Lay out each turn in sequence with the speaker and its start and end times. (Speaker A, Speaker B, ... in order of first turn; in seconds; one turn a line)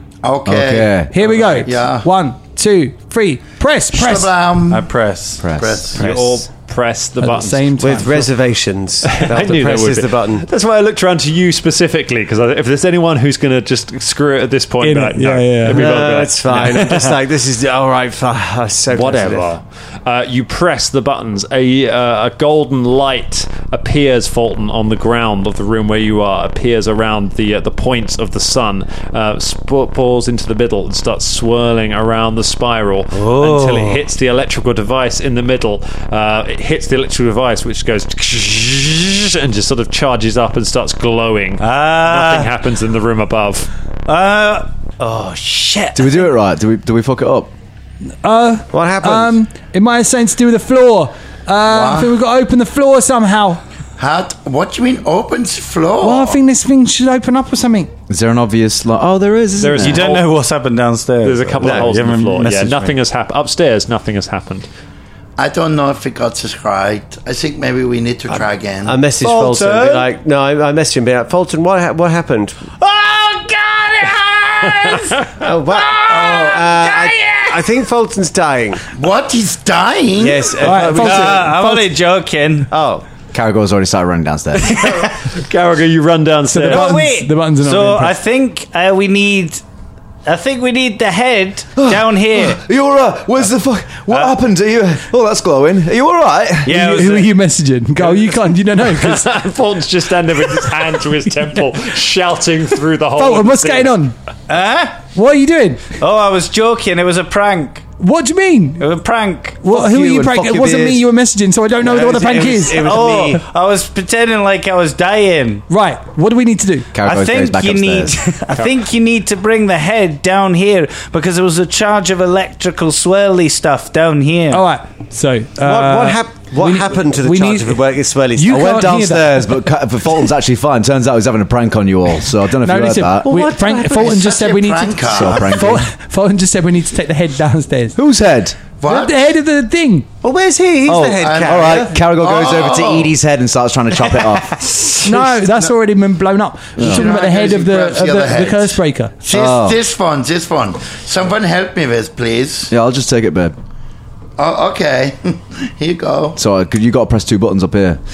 Speaker A: 0.2-2.1
Speaker B: 0.5-1.1
Speaker C: 1.1-4.3
Speaker A: 3.9-5.0
Speaker D: 4.7-5.5
Speaker B: 5.4-6.0
Speaker A: 5.6-6.2
Speaker E: 6.0-7.7
Speaker D: 6.0-6.3
Speaker C: 7.2-8.3
Speaker F: 7.8-10.5
Speaker E: 9.0-17.1
Speaker C: 14.8-16.0
Speaker F: 15.7-19.5
Speaker E: 18.9-43.7
Speaker D: 33.1-34.1
Speaker D: 41.6-42.5
Speaker D: 44.1-46.3
Speaker B: 46.0-47.5
Speaker C: 48.2-53.6
Speaker F: 48.7-49.4
Speaker A: 51.7-52.1
Speaker A: 54.0-56.4
Speaker C: 56.0-57.9
Speaker B: 58.1-60.1
Speaker E: 59.6-60.3
Speaker D: 59.8-63.0
Speaker E: 61.2-64.7
Speaker F: 61.6-61.9
Speaker A: 65.4-69.0
Speaker F: 68.3-72.7
Speaker D: 69.2-70.1
Speaker D: 72.8-77.8
Speaker E: 74.8-75.2
Speaker F: 75.4-78.9
Speaker A: 78.9-80.6
Speaker F: 80.2-81.5
Speaker C: 80.6-81.9
Speaker D: 80.9-82.7
Speaker F: 82.7-83.0
Speaker B: 83.3-84.8
Speaker E: 85.2-87.0
Speaker C: 86.5-88.2
Speaker D: 86.6-89.6
Speaker D: 90.2-92.6
Speaker B: 91.8-96.8
Speaker D: 94.1-94.3
Speaker D: 96.7-97.3
Speaker C: 96.7-99.3
Speaker E: 98.8-104.0
Speaker C: 103.2-104.2
Speaker D: 104.5-105.0
Speaker C: 105.1-105.9
Speaker D: 106.0-107.8
Speaker C: 108.0-108.9
Speaker D: 108.8-110.4
Speaker C: 109.6-113.4
Speaker B: 109.9-111.0
Speaker F: 111.8-113.4
Speaker D: 112.7-115.6
Speaker C: 115.7-116.9
Speaker B: 116.9-118.2
Speaker D: 117.0-124.7
Speaker C: 124.5-127.8
Speaker F: 125.6-128.6
Speaker C: 128.4-129.6
Speaker B: 128.4-133.5
Speaker C: 132.6-138.0
Speaker F: 133.5-134.1
Speaker A: 133.8-135.5
Speaker B: 135.1-135.9
Speaker B: 138.0-138.6
Speaker C: 138.8-140.1
Speaker A: 138.8-139.2
Speaker F: 140.2-142.0
Speaker B: 140.9-145.3
Speaker A: 141.2-143.1
Speaker C: 145.0-149.1
Speaker B: 146.8-147.1
Speaker A: 146.8-152.7
Speaker B: 149.3-149.8
Speaker B: 152.7-153.6
Speaker A: 154.4-156.4
Speaker B: 156.4-158.0